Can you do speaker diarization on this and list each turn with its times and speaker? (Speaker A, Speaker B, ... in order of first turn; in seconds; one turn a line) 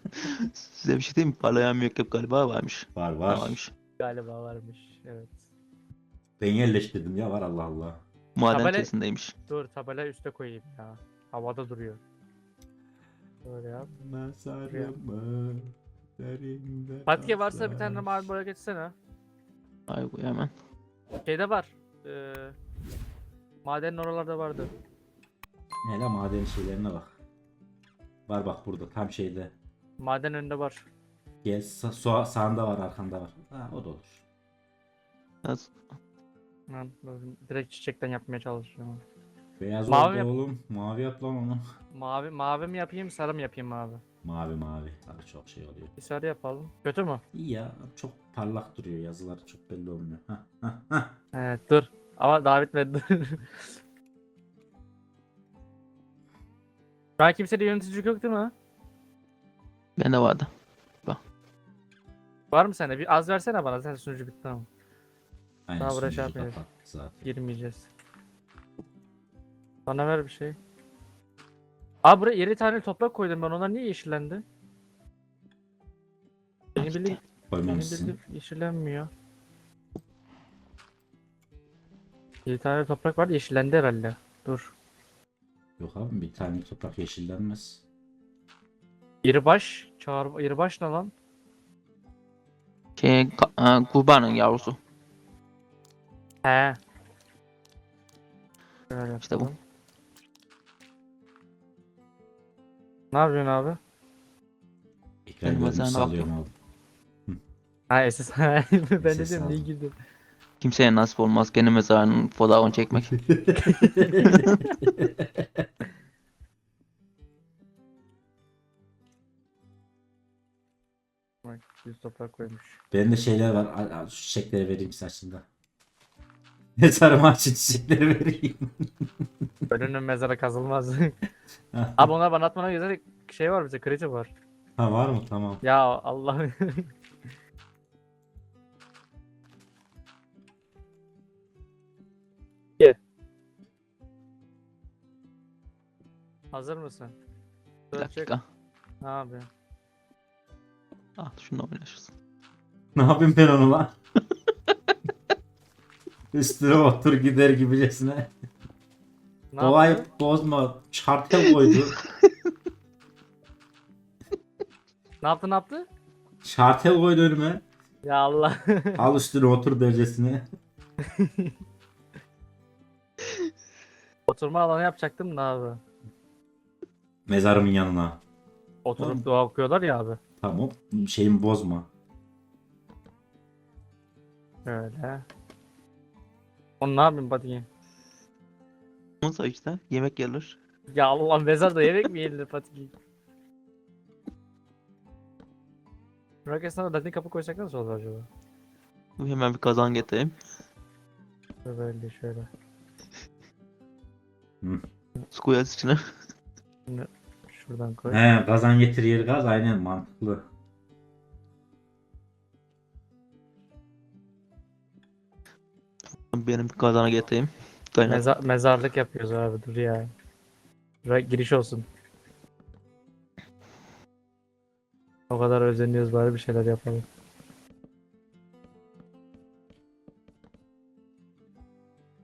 Speaker A: 0.2-3.7
Speaker B: 2.9-3.6
Speaker C: 4.0-5.3
Speaker B: 6.4-8.0
Speaker A: 8.3-9.3
Speaker C: 8.5-8.9
Speaker C: 9.5-12.0
Speaker C: 13.4-13.9
Speaker B: 13.9-18.3
Speaker C: 14.7-14.9
Speaker C: 17.1-18.9
Speaker A: 19.9-20.5
Speaker C: 21.2-22.6
Speaker C: 23.6-24.7
Speaker B: 25.8-27.1
Speaker B: 28.3-29.5
Speaker C: 30.0-30.9
Speaker B: 31.4-34.2
Speaker A: 35.4-35.8
Speaker C: 36.7-39.0
Speaker B: 39.6-41.6
Speaker C: 39.9-40.3
Speaker C: 41.9-44.0
Speaker B: 44.2-45.9
Speaker C: 46.0-47.2
Speaker B: 47.3-51.1
Speaker C: 51.3-53.7
Speaker C: 57.2-58.5
Speaker A: 60.0-60.5
Speaker C: 62.5-64.7
Speaker B: 65.7-67.3
Speaker C: 65.8-66.6
Speaker C: 67.2-67.9
Speaker C: 69.8-70.6
Speaker C: 72.0-74.4
Speaker C: 76.8-79.1
Speaker B: 77.5-78.2
Speaker C: 82.5-84.7
Speaker B: 85.8-87.8
Speaker C: 89.2-91.1
Speaker A: 93.0-94.8
Speaker C: 96.4-96.8
Speaker C: 98.9-99.6
Speaker A: 99.2-99.5
Speaker C: 103.1-103.8
Speaker B: 105.2-106.5
Speaker A: 105.4-106.3
Speaker C: 107.9-109.9
Speaker B: 109.0-109.7
Speaker A: 110.6-113.2
Speaker B: 113.1-115.6
Speaker C: 113.6-114.6
Speaker C: 121.4-122.8
Speaker B: 122.9-125.5
Speaker B: 126.8-128.7
Speaker C: 129.7-131.1
Speaker B: 131.7-132.1
Speaker C: 132.0-134.3
Speaker B: 134.8-135.6
Speaker C: 135.6-136.9
Speaker C: 146.5-147.2
Speaker C: 147.9-148.3
Speaker A: 147.9-148.4
Speaker C: 149.0-149.5
Speaker A: 151.2-152.1
Speaker B: 152.9-153.9
Speaker B: 156.3-158.3
Speaker C: 159.5-160.1
Speaker B: 159.6-162.0
Speaker C: 165.2-165.8
Speaker B: 166.4-167.6
Speaker C: 168.0-169.1
Speaker B: 169.0-170.5
Speaker C: 171.1-171.5
Speaker C: 174.3-175.8
Speaker B: 177.3-178.2
Speaker C: 178.8-180.2
Speaker B: 179.0-179.2
Speaker B: 180.4-181.9
Speaker C: 184.6-185.2
Speaker C: 186.8-187.7
Speaker A: 189.2-190.6
Speaker C: 190.9-192.9
Speaker C: 196.4-198.3
Speaker A: 199.2-200.3
Speaker C: 201.6-202.5
Speaker A: 205.3-206.0
Speaker C: 206.9-208.2
Speaker B: 208.1-210.4
Speaker A: 216.3-218.2
Speaker C: 218.1-220.1
Speaker C: 221.0-221.8
Speaker C: 225.3-227.0